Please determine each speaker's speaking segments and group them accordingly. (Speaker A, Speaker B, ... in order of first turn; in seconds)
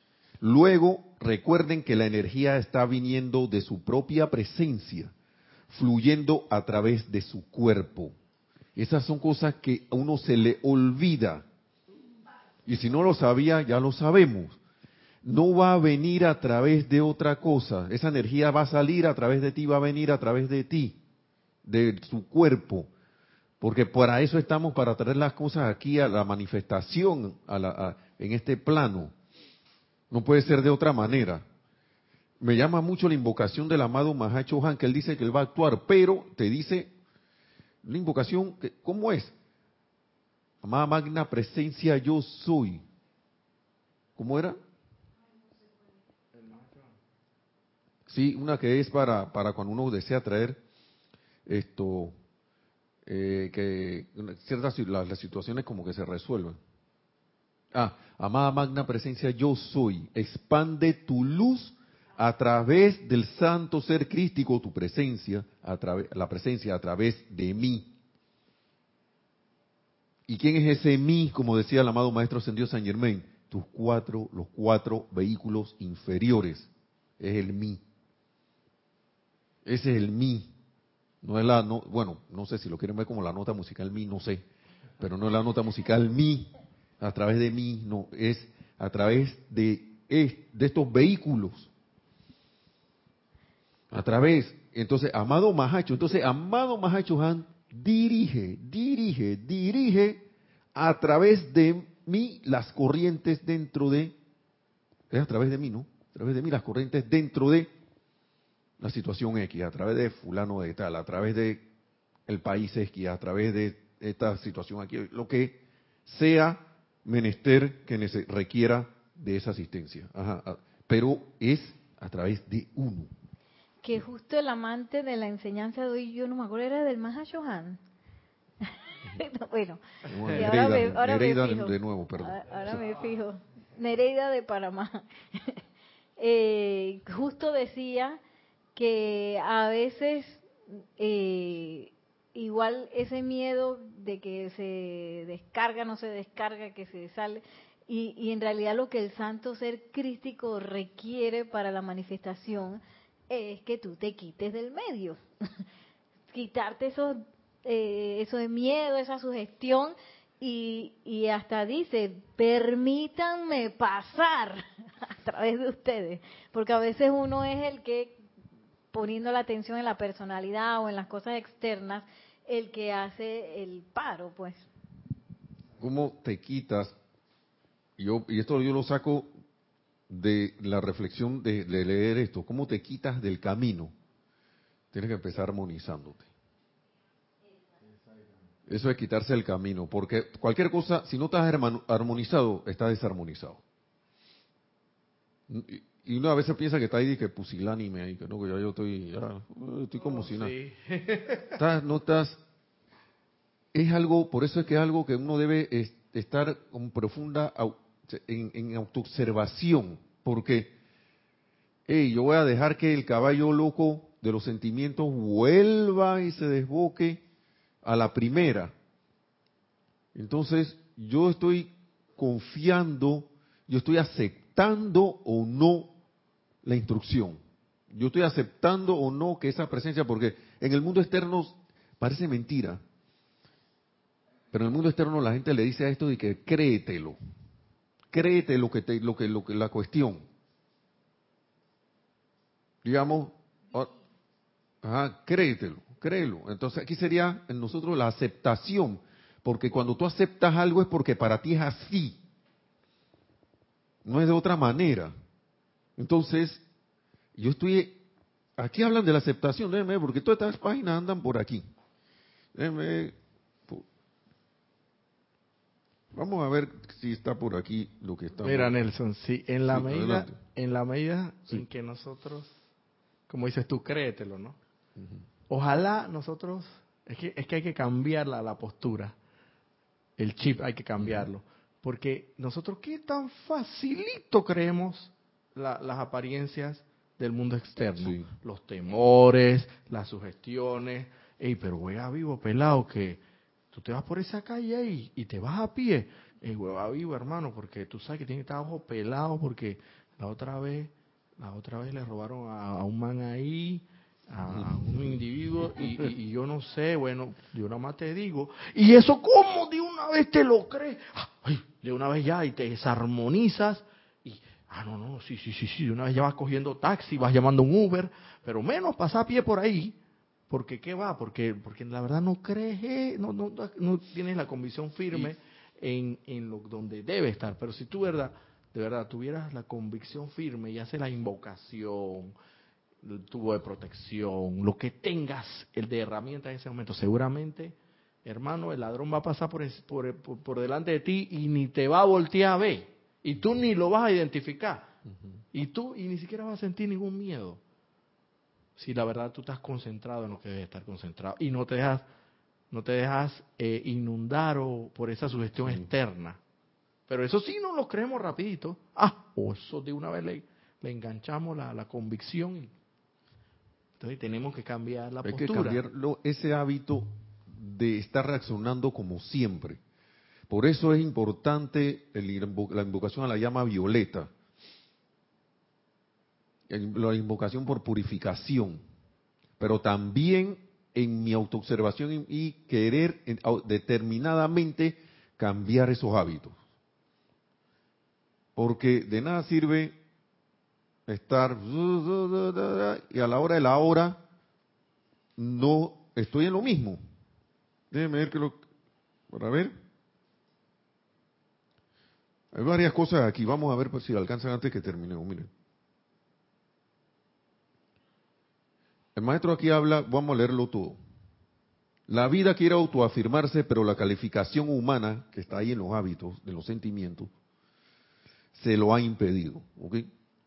Speaker A: 0.4-5.1, 5.7-8.1, 8.8-11.5, 12.7-14.6, 15.2-21.0, 21.6-22.9, 23.6-29.1, 30.1-31.4, 32.4-36.9, 37.8-39.3, 40.6-42.9, 44.2-44.6, 48.1-50.6, 51.5-52.1, 53.1-56.6, 57.7-67.9, 70.3-77.8, 79.7-80.5, 81.2-84.5, 85.0-91.7, 93.9-104.2, 105.1-107.7, 108.8-111.7, 112.3-123.1, 130.1-132.8, 175.8-176.9, 178.0-179.3, 180.1-183.9, 184.9-186.3, 188.7-193.6, 195.5-200.5, 201.6-202.4, 203.7-210.8, 211.9-217.2, 217.8-218.7, 220.2-225.9, 226.6-232.8, 234.5-237.2, 238.1-240.3, 242.8-243.9, 244.8-252.2, 254.1-255.1, 256.0-256.6, 257.4-258.0, 258.6-261.6, 262.6-263.2, 266.1-268.7, 269.7-270.4, 281.0-281.3, 288.0-288.3, 304.5-305.2, 365.2-369.8, 370.5-374.3, 376.7-378.8, 379.6-386.6, 388.6-389.9, 391.1-394.2, 395.4-397.0, 397.9-398.6, 399.3-399.7, 402.5-405.5, 409.2-411.0, 412.1-417.3, 418.5-420.1
Speaker B: 46.3-46.9, 200.0-201.6, 268.4-272.6, 273.3-274.6, 275.5-279.2, 280.2-293.2, 293.7-320.0, 320.5-332.4, 333.0-344.9, 345.5-347.6, 348.8-352.1, 352.7-356.4, 357.1-362.7, 364.0-365.8
Speaker C: 123.8-127.8, 128.6-135.6, 136.2-138.2, 138.8-140.4, 141.0-155.2, 156.3-168.2, 168.9-174.6